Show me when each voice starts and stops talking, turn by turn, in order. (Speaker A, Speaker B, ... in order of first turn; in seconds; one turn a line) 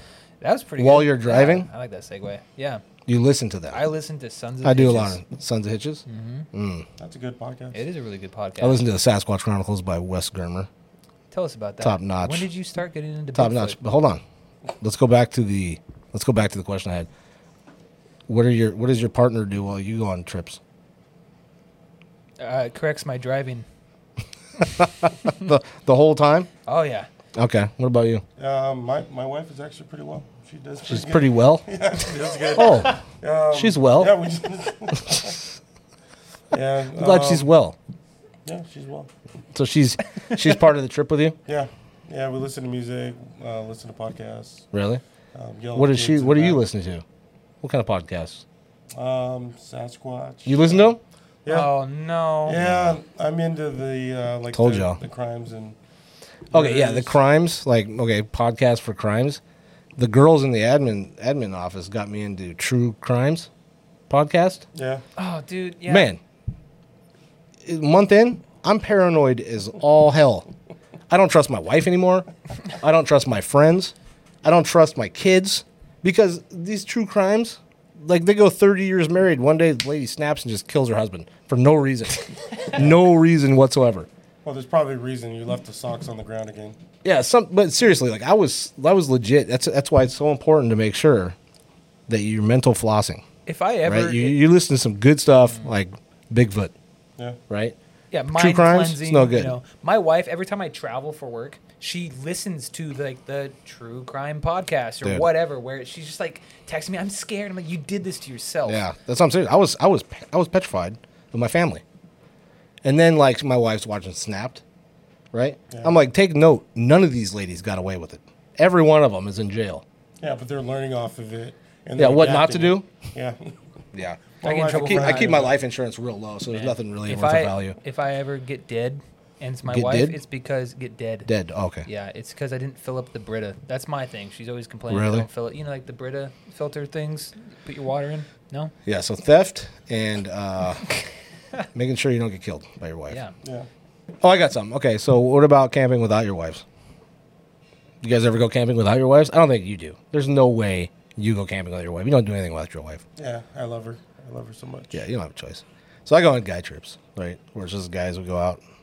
Speaker A: 0.4-2.8
Speaker B: 0.8-1.7
Speaker B: 3.0-3.8
Speaker A: 3.7-5.2
Speaker B: 4.6-6.9
Speaker A: 6.1-6.5
Speaker C: 7.0-7.8
Speaker A: 7.7-8.8
Speaker B: 8.6-10.7
Speaker A: 11.3-13.8
Speaker B: 11.8-12.5
Speaker B: 13.3-14.2
Speaker B: 14.8-17.1
Speaker B: 18.3-20.6
Speaker A: 22.4-23.6
Speaker B: 24.6-26.5
Speaker A: 26.6-27.1
Speaker B: 27.3-28.2
Speaker C: 28.4-35.3
Speaker B: 30.9-31.7
Speaker B: 32.5-34.2
Speaker B: 35.0-35.3
Speaker C: 36.5-37.5
Speaker B: 36.9-37.8
Speaker C: 38.5-39.1
Speaker B: 39.5-41.4
Speaker C: 41.5-44.7
Speaker B: 44.7-45.0
Speaker C: 45.3-46.6
Speaker B: 45.7-47.0
Speaker B: 47.6-48.4
Speaker C: 48.9-51.7
Speaker B: 50.5-51.0
Speaker A: 51.5-52.6
Speaker C: 52.4-55.8
Speaker B: 52.6-53.0
Speaker B: 54.5-55.0
Speaker C: 56.5-57.2
Speaker B: 56.5-59.4
Speaker B: 60.0-63.5
Speaker B: 64.1-64.6
Speaker C: 64.7-65.0
Speaker A: 65.2-66.1
Speaker B: 65.8-66.2
Speaker B: 67.6-70.5
Speaker B: 71.1-84.1
Speaker C: 84.4-86.8
Speaker B: 87.0-91.3
Speaker B: 92.1-93.2
Speaker A: 93.5-94.4
Speaker B: 93.8-96.7
Speaker B: 97.5-97.8
Speaker A: 98.1-108.8
Speaker B: 98.3-99.5
Speaker B: 105.0-105.3
Speaker B: 108.7-111.8
Speaker B: 112.8-114.6
Speaker B: 115.3-119.8
Speaker C: 115.7-116.0
Speaker C: 120.2-123.5
Speaker B: 122.0-122.8
Speaker B: 123.9-127.8
Speaker C: 124.4-125.6
Speaker A: 124.4-125.4
Speaker A: 126.5-131.3
Speaker B: 129.7-130.2
Speaker B: 131.2-131.9
Speaker A: 131.8-138.7
Speaker B: 134.9-135.3
Speaker B: 138.8-140.9
Speaker B: 141.7-143.2
Speaker A: 143.1-143.3
Speaker C: 143.4-143.7
Speaker B: 144.2-146.6
Speaker B: 148.0-153.0
Speaker C: 153.2-155.0
Speaker B: 154.9-158.6